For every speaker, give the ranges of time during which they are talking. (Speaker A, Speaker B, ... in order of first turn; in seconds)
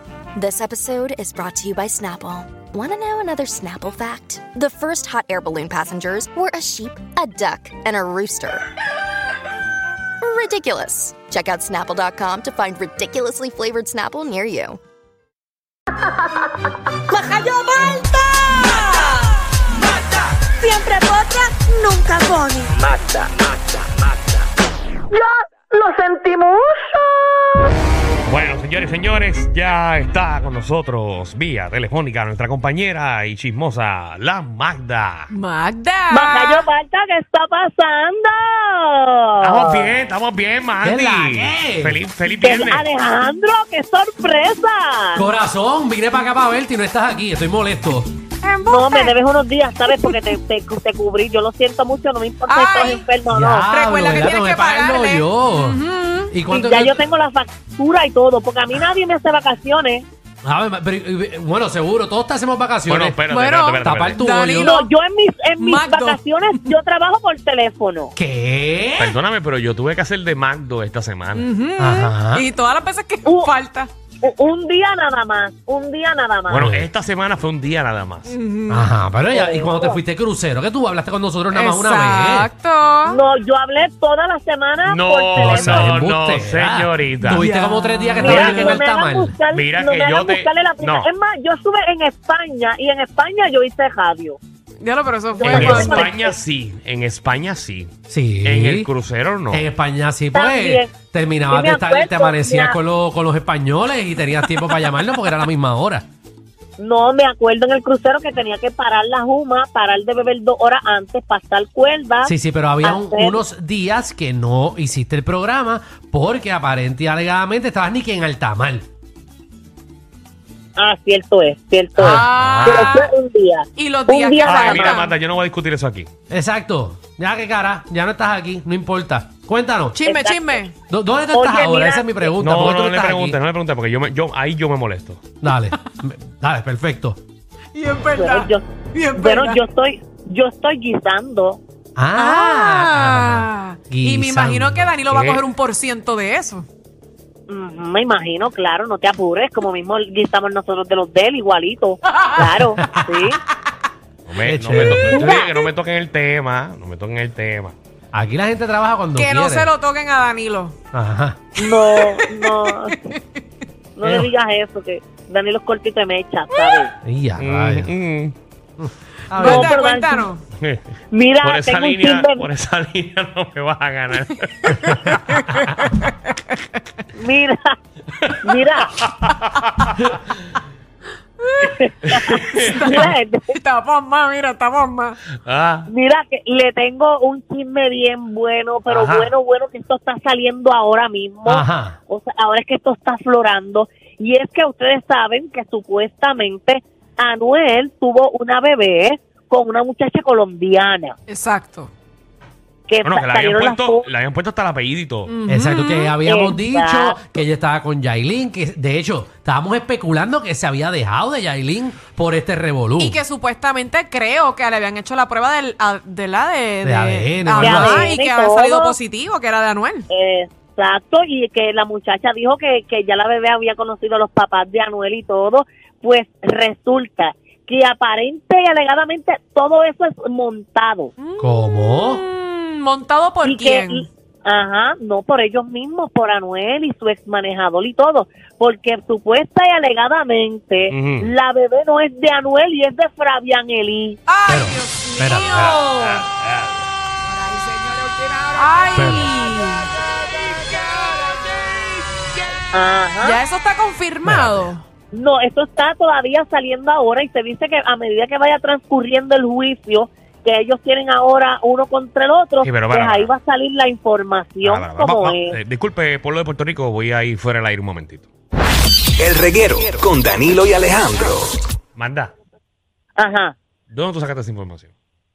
Speaker A: 0.3-8.6, 10.2-14.8
Speaker B: 17.1-19.0, 20.6-22.7, 36.1-39.9, 42.4-45.2, 48.6-53.7, 56.5-60.0, 64.5-68.1, 73.2-73.5, 74.2-76.7, 79.3-80.0, 83.0-86.0, 88.2-94.4, 95.3-96.4, 100.3-100.9, 101.5-102.8, 106.8-113.4, 120.8-125.0, 130.0-130.6, 131.3-132.3, 138.1-141.6, 147.5-153.4, 155.1-155.5, 161.6-163.0, 163.9-166.9, 169.4-170.3, 171.1-172.5, 177.1-177.8, 178.4-178.9, 181.6-183.5, 185.9-201.2, 202.9-204.1, 206.2-207.2, 217.6-218.9, 220.1-231.1, 233.4-244.2, 252.7-253.4, 255.1-265.6, 273.2-273.5
Speaker C: 28.2-35.3, 39.4-42.8, 62.9-64.2, 69.0-71.4, 76.5-78.3, 84.9-87.4, 89.5-91.1, 95.4-97.9, 98.4-99.6, 122.5-122.9, 124.5-126.1, 132.4-135.2, 145.1-145.4, 154.2-157.8, 167.4-168.3, 170.6-170.9, 171.4-175.1, 179.0-180.2, 182.3-182.7, 185.4-185.8, 188.9-189.3, 203.0-205.3, 240.9-241.3, 245.7-246.9, 262.6-263.3, 264.6-268.3, 271.9-272.3, 273.9-274.9
Speaker D: 35.3-36.6, 48.4-49.1, 52.5-53.0, 53.7-56.3, 63.3-64.9, 65.6-66.7, 71.3-73.9, 78.2-78.9, 81.5-83.2, 87.2-88.8, 94.8-96.1, 122.0-123.1, 123.8-125.1, 129.9-130.7, 137.7-139.6, 142.2-146.7, 159.2-160.7, 161.6-163.4, 169.3-170.4, 174.7-176.3, 181.4-185.2, 201.3-201.9, 205.3-206.1, 213.0-220.1, 231.2-234.1, 244.3-246.2, 247.2-252.3, 253.2-254.8
Speaker E: 40.8-42.0, 45.1-48.1, 53.3-57.0, 60.4-63.2, 63.8-64.7, 68.2-69.2, 71.8-72.5, 76.5-76.9, 78.7-82.5, 85.4-89.3, 98.1-98.9, 99.5-106.0, 112.2-118.8, 126.3-130.0, 130.9-133.4, 135.4-137.2, 141.9-144.9, 154.4-155.3, 158.1-159.7, 160.9-161.4, 164.0-164.3, 167.0-167.9, 191.4-192.0, 205.5-213.2, 216.8-218.1, 231.4-232.2, 244.5-245.8, 248.9-249.3, 254.2-254.7
Speaker F: 269.2-271.5